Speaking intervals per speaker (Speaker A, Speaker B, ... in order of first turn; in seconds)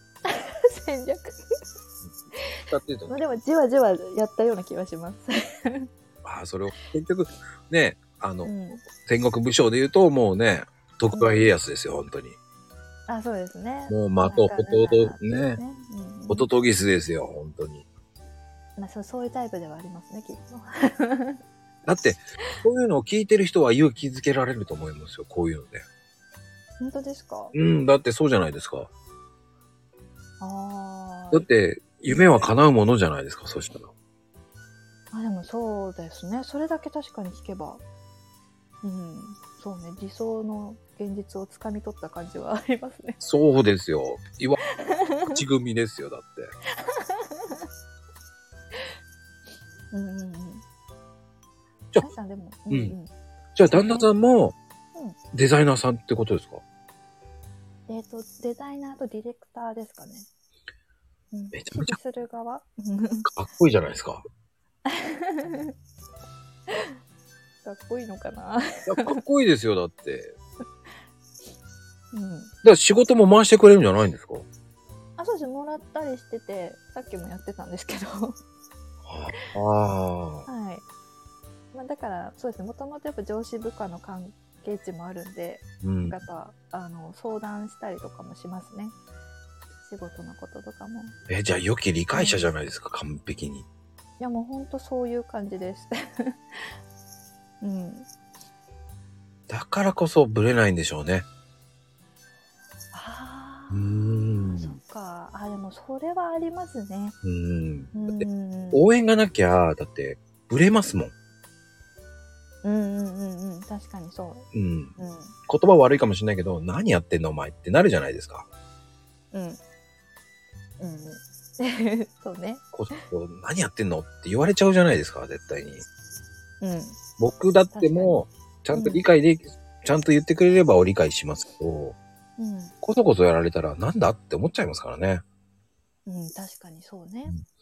Speaker A: 0.3-1.4, 2.4-5.9, 8.4-8.8, 11.1-11.5, 13.1-16.5, 18.8-21.4, 26.8-27.6, 30.4-31.5, 32.1-32.5, 35.1-37.8, 38.8-43.2, 44.8-45.4, 46.8-47.6, 49.9-50.6, 52.0-53.1, 53.7-54.1, 57.9-60.3, 61.3-63.3, 64.9-65.7, 67.6-69.2, 72.1-72.5, 75.2-78.4, 80.5-80.8, 81.7-89.0, 89.8-91.1, 92.1-92.5, 94.2-96.4, 97.6-98.1, 102.9-107.2, 107.9-108.8, 112.6-115.3, 119.3-119.6, 120.8-123.0, 126.6-127.0, 127.7-128.2, 128.7-129.0, 132.4-132.7, 136.1-137.4
Speaker B: 2.6-3.1, 6.2-12.4, 13.9-15.6, 16.3-17.9, 21.9-25.9, 27.5-28.9, 31.3-33.9, 43.2-44.6, 45.3-46.5, 52.7-52.9, 53.6-54.6, 55.3-56.6, 61.5-62.0, 63.2-64.2, 68.9-70.3, 72.6-74.5, 79.1-80.5, 85.8-86.2, 91.3-93.7, 99.5-101.3, 103.7-104.8, 107.2-111.1, 114.5-114.9, 115.5-118.5, 122.7-125.8, 127.2-131.9, 132.8-135.2